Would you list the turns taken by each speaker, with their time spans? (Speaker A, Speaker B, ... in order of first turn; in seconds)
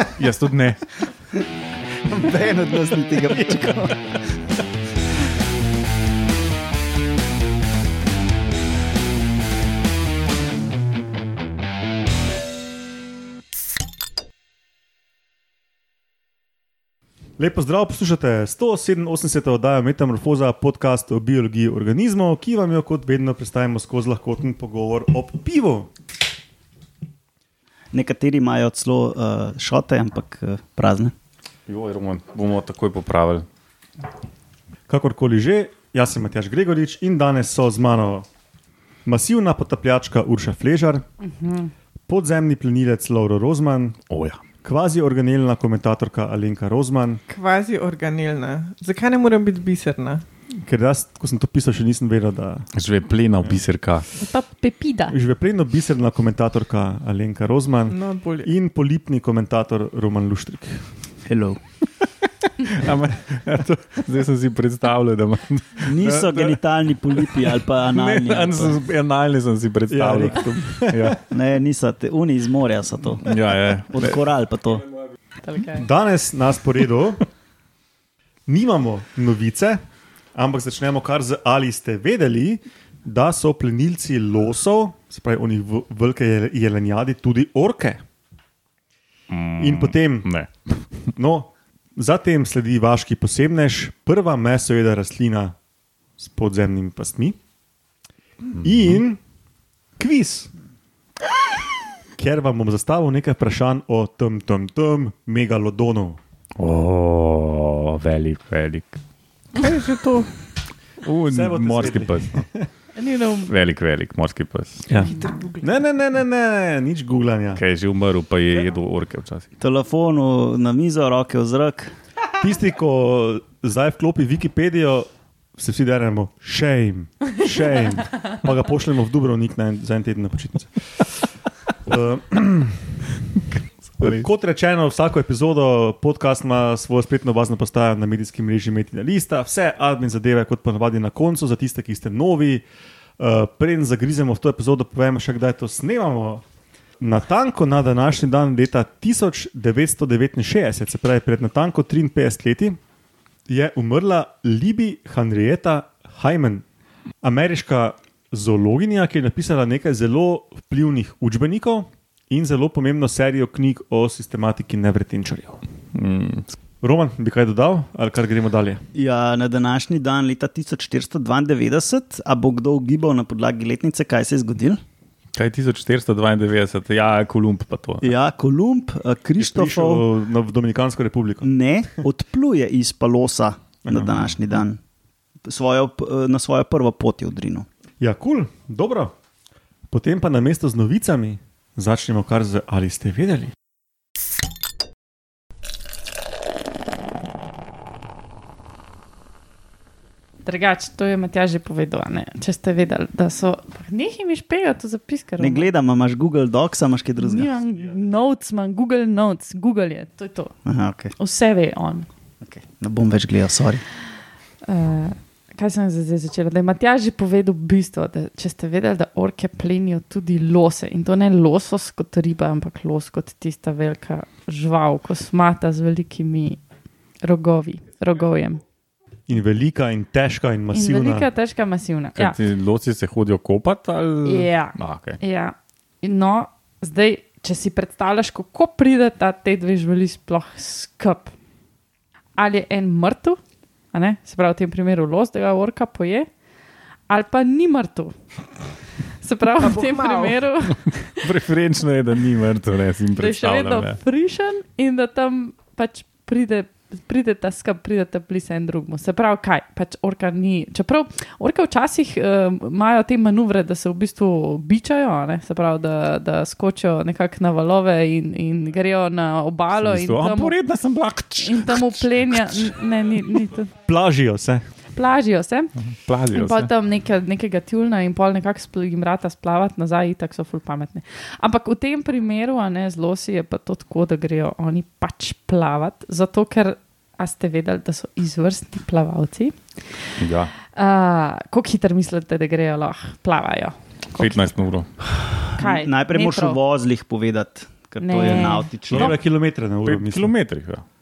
Speaker A: 0.2-0.8, 31.7-33.4, 44.1-44.4, 52.7-54.1, 62.6-66.6, 67.1-71.2, 73.2-74.2, 89.3-90.5, 98.5-99.0, 106.6-109.0, 111.0-112.4, 113.5-114.9, 117.5-119.5, 165.9-166.5, 175.3-178.1, 232.1-235.2, 251.1-254.0, 269.7-272.5, 275.8-276.7, 290.2-290.5, 294.1-294.9, 299.8-300.8
Speaker B: 2.0-4.2, 27.9-31.1, 61.2-61.6, 65.8-68.8, 71.3-74.9, 119.6-121.9, 168.9-174.8, 178.0-180.1, 181.4-184.8, 185.4-187.7, 205.4-207.5, 210.6-211.1, 212.4-213.8, 295.6-299.1
Speaker C: 17.4-25.9, 34.9-38.2, 39.0-41.0, 42.1-44.0, 44.6-47.2, 50.6-52.7, 55.1-60.8, 69.9-71.1, 75.8-77.2, 78.5-79.8, 80.3-88.0, 89.6-90.3, 91.1-95.5, 96.2-97.4, 98.6-99.2, 100.0-100.5, 102.2-106.2, 111.3-112.7, 114.9-117.6, 122.4-130.7, 131.8-132.8, 134.0-142.6, 143.2-146.4, 147.0-152.8, 153.5-156.6, 157.2-165.6, 166.8-168.8, 179.4-182.0, 183.8-184.2, 188.0-189.1, 189.9-193.5, 229.3-231.3, 273.9-274.6, 298.9-300.3
Speaker D: 41.2-41.7, 54.2-55.1, 75.4-75.9, 113.0-113.5, 115.0-115.6, 200.4-205.7, 207.2-210.5, 211.2-212.1, 214.7-226.6, 227.2-228.6, 230.7-232.4, 234.2-241.3, 242.4-243.4, 243.9-246.3, 247.1-248.1, 249.2-251.3, 253.1-270.6, 271.4-273.7, 274.9-275.7, 276.3-290.1, 290.6-294.5, 295.6-296.6, 298.0-299.1
Speaker E: 47.3-50.2, 57.9-58.5, 109.5-110.3, 115.0-115.6, 249.6-250.4